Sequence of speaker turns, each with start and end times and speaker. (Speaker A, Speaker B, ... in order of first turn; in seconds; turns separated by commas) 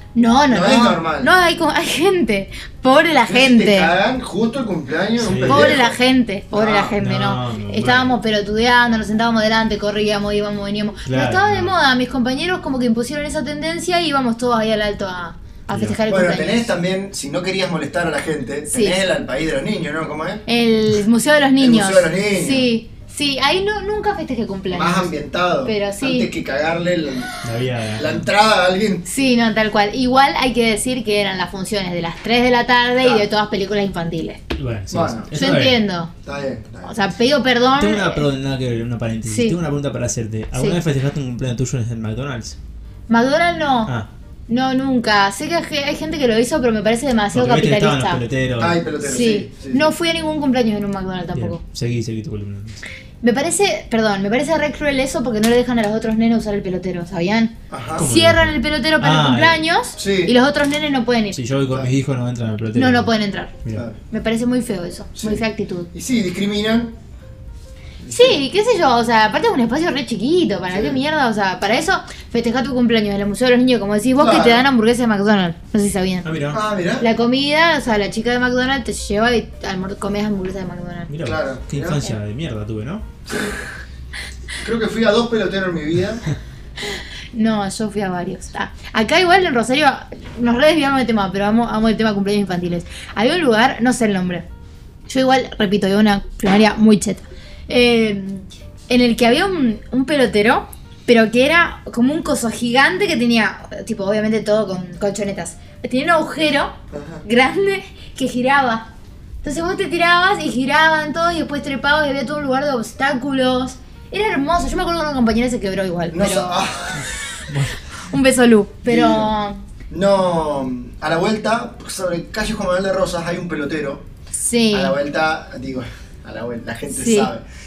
Speaker A: 0.1-3.9, Speaker B: 0.5-1.3, Speaker B: 3.3-6.0, Speaker C: 5.2-5.8, Speaker A: 5.5-16.7, Speaker B: 6.5-6.9, Speaker C: 6.9-8.2, Speaker C: 11.0-11.7, Speaker C: 15.7-16.0, Speaker B: 16.1-20.4, Speaker A: 18.7-19.0, Speaker A: 20.4-25.1, Speaker B: 21.6-22.7, Speaker B: 24.7-27.3, Speaker A: 25.6-26.3, Speaker C: 27.4-28.2, Speaker B: 27.9-29.0, Speaker A: 29.1-34.4, Speaker B: 33.0-33.2, Speaker C: 34.5-35.8, Speaker B: 34.9-35.3, Speaker A: 35.3-36.1, Speaker B: 36.2-36.9, Speaker A: 36.8-38.2, Speaker C: 37.7-42.6, Speaker A: 39.2-39.6, Speaker A: 40.5-40.8, Speaker A: 43.1-43.9, Speaker A: 44.5-48.2, Speaker C: 47.3-48.8, Speaker B: 48.6-49.9, Speaker A: 49.0-51.6, Speaker C: 51.3-52.8, Speaker A: 53.2-61.4, Speaker B: 57.7-58.0, Speaker C: 57.9-59.6, Speaker B: 60.0-60.3, Speaker C: 61.3-63.1, Speaker A: 62.7-63.5, Speaker B: 63.7-64.0, Speaker A: 64.1-65.9, Speaker B: 65.2-65.4, Speaker B: 65.9-66.9, Speaker B: 68.0-68.4, Speaker A: 68.1-76.3, Speaker B: 70.7-71.0, Speaker B: 74.2-74.7, Speaker C: 76.2-76.6, Speaker B: 76.5-77.1, Speaker A: 77.0-81.1, Speaker C: 81.1-83.0, Speaker B: 81.2-82.0, Speaker B: 83.2-83.6, Speaker B: 84.6-86.2, Speaker A: 86.9-94.4, Speaker A: 95.1-108.9, Speaker B: 106.9-107.2, Speaker A: 109.4-116.5, Speaker B: 116.1-117.1, Speaker C: 116.9-117.8, Speaker A: 118.0-119.6, Speaker B: 118.8-119.3, Speaker B: 119.9-124.0, Speaker A: 124.3-125.0, Speaker B: 124.7-127.4, Speaker A: 126.9-127.3